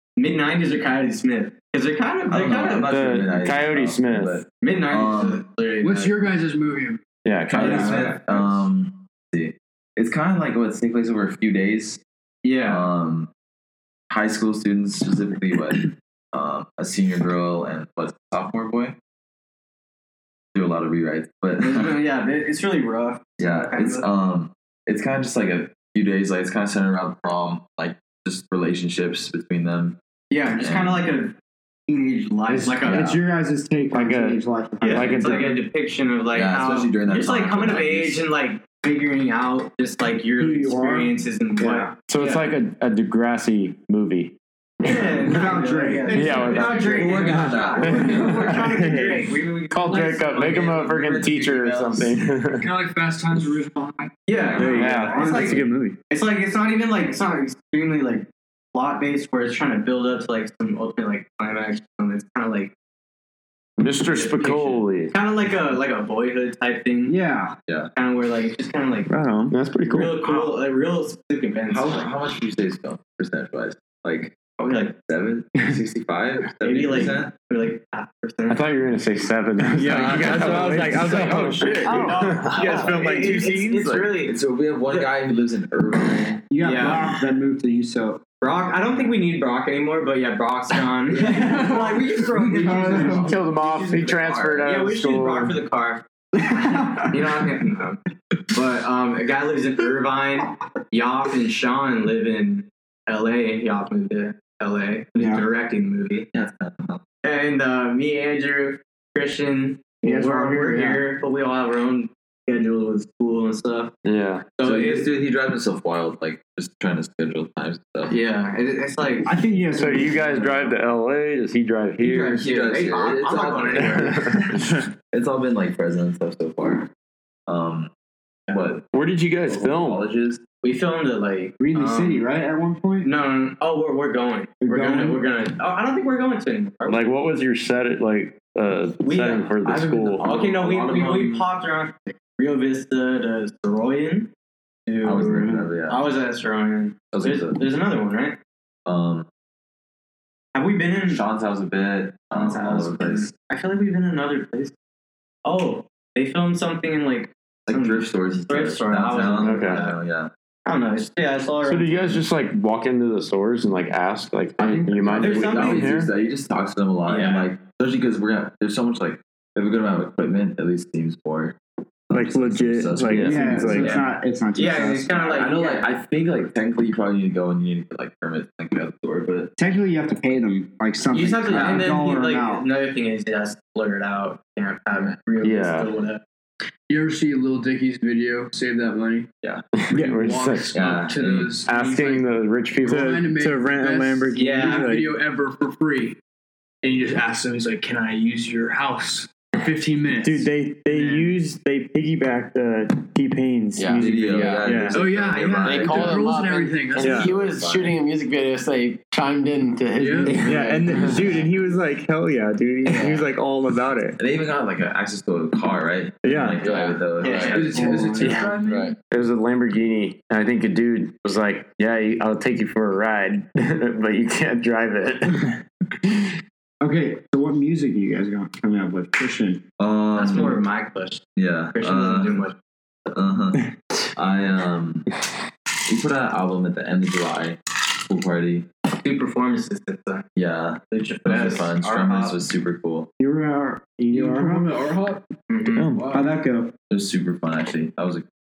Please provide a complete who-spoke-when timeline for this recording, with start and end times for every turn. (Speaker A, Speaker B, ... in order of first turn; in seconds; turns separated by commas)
Speaker A: 0.2-3.0, Speaker B: 2.3-5.4, Speaker C: 2.9-4.4, Speaker A: 4.6-6.2, Speaker D: 5.8-7.0, Speaker C: 7.2-7.8, Speaker B: 7.4-12.0, Speaker A: 7.5-8.6, Speaker E: 7.5-8.6, Speaker A: 12.4-12.9, Speaker B: 12.7-13.3, Speaker B: 14.1-18.9, Speaker B: 20.5-22.0, Speaker A: 21.6-24.1, Speaker B: 23.4-29.9, Speaker A: 30.3-31.3, Speaker B: 30.6-31.1, Speaker A: 31.9-33.1, Speaker E: 32.5-35.5, Speaker B: 32.8-33.2, Speaker C: 33.9-35.6, Speaker A: 34.8-42.5, Speaker B: 36.3-38.2, Speaker E: 40.4-41.9, Speaker C: 42.1-45.3, Speaker A: 44.8-51.3, Speaker E: 45.3-46.4, Speaker C: 46.1-47.1, Speaker D: 46.2-47.4, Speaker B: 46.9-48.1, Speaker F: 47.3-49.3, Speaker C: 47.8-48.6, Speaker D: 48.1-48.4, Speaker C: 49.7-52.7, Speaker B: 50.6-52.1, Speaker D: 52.6-54.2, Speaker A: 54.2-62.7, Speaker F: 54.5-56.0, Speaker C: 54.7-55.6, Speaker E: 54.8-55.6, Speaker C: 63.8-65.1, Speaker A: 64.0-67.1, Speaker E: 67.0-67.5, Speaker A: 67.9-69.1, Speaker F: 69.1-69.6, Speaker C: 69.5-70.2, Speaker A: 69.8-72.1, Speaker B: 71.7-77.3, Speaker A: 74.5-74.9, Speaker A: 76.6-78.8, Speaker C: 78.5-82.5, Speaker F: 79.7-84.1, Speaker B: 79.8-81.4, Speaker A: 81.0-85.1, Speaker B: 82.5-83.5, Speaker B: 84.0-86.9, Speaker E: 86.5-88.2, Speaker A: 86.5-87.1, Speaker A: 88.4-98.0, Speaker D: 91.2-92.0, Speaker E: 91.2-91.5, Speaker E: 92.5-93.3, Speaker D: 92.6-93.0, Speaker B: 92.8-93.3, Speaker C: 93.2-95.5, Speaker E: 96.4-97.2, Speaker A: 98.5-106.3, Speaker E: 105.2-105.4, Speaker B: 106.3-107.0, Speaker A: 107.2-113.9, Speaker E: 110.0-111.0, Speaker C: 114.0-114.5, Speaker A: 114.6-115.1, Speaker B: 114.6-118.1, Speaker A: 118.1-119.3, Speaker E: 119.2-120.7, Speaker C: 119.8-122.5, Speaker A: 122.0-124.3, Speaker B: 122.4-126.9, Speaker C: 123.8-124.6, Speaker B: 127.5-127.9, Speaker A: 128.5-128.8, Speaker B: 128.5-128.8, Speaker C: 128.9-130.0, Speaker B: 129.5-130.4, Speaker A: 130.6-132.2, Speaker E: 131.6-133.1, Speaker A: 133.0-137.0, Speaker E: 134.6-135.2, Speaker C: 136.8-140.3, Speaker A: 139.0-139.6, Speaker B: 139.6-141.5, Speaker A: 140.2-144.3, Speaker A: 144.9-148.4, Speaker B: 145.0-146.0, Speaker B: 147.1-147.6, Speaker B: 148.8-149.2, Speaker A: 150.5-151.2, Speaker B: 151.1-153.3, Speaker A: 152.3-154.7, Speaker A: 155.4-160.0, Speaker B: 157.7-160.3, Speaker C: 159.3-159.8, Speaker A: 160.6-162.2, Speaker C: 161.6-166.1, Speaker B: 164.6-171.6, Speaker A: 165.2-165.9, Speaker A: 167.0-167.5, Speaker B: 172.1-174.0, Speaker F: 172.1-173.9, Speaker C: 173.1-173.4, Speaker E: 173.2-175.3, Speaker A: 173.7-175.9, Speaker B: 175.2-179.5, Speaker E: 179.6-182.6, Speaker A: 181.1-186.2, Speaker B: 181.5-181.8, Speaker B: 184.9-185.2, Speaker C: 185.4-185.9, Speaker D: 186.9-189.3, Speaker C: 189.8-190.9, Speaker D: 189.9-196.2, Speaker B: 190.7-191.6, Speaker C: 191.7-193.2, Speaker F: 192.8-195.2, Speaker D: 196.8-201.4, Speaker F: 200.2-205.0, Speaker G: 203.8-204.8, Speaker B: 204.0-206.3, Speaker D: 204.9-207.3, Speaker G: 205.6-211.4, Speaker F: 207.0-207.3, Speaker B: 207.1-207.9, Speaker D: 209.9-210.5, Speaker F: 210.3-214.2, Speaker B: 212.8-213.2, Speaker B: 214.2-218.4, Speaker F: 216.2-216.6, Speaker G: 216.6-217.6, Speaker A: 217.2-218.0, Speaker D: 217.4-218.9, Speaker E: 217.7-218.3, Speaker G: 218.6-218.9, Speaker C: 219.1-226.2, Speaker E: 226.8-229.6, Speaker B: 229.8-230.6, Speaker A: 230.1-232.5, Speaker B: 231.3-232.4, Speaker B: 233.1-233.6, Speaker B: 234.1-235.1, Speaker B: 235.9-238.7, Speaker A: 239.0-240.2, Speaker B: 240.3-243.1, Speaker A: 240.9-242.4, Speaker E: 243.2-244.8, Speaker D: 244.1-245.2, Speaker A: 245.5-245.9, Speaker F: 245.7-246.1, Speaker D: 245.8-246.4, Speaker E: 246.1-246.7, Speaker B: 246.9-248.2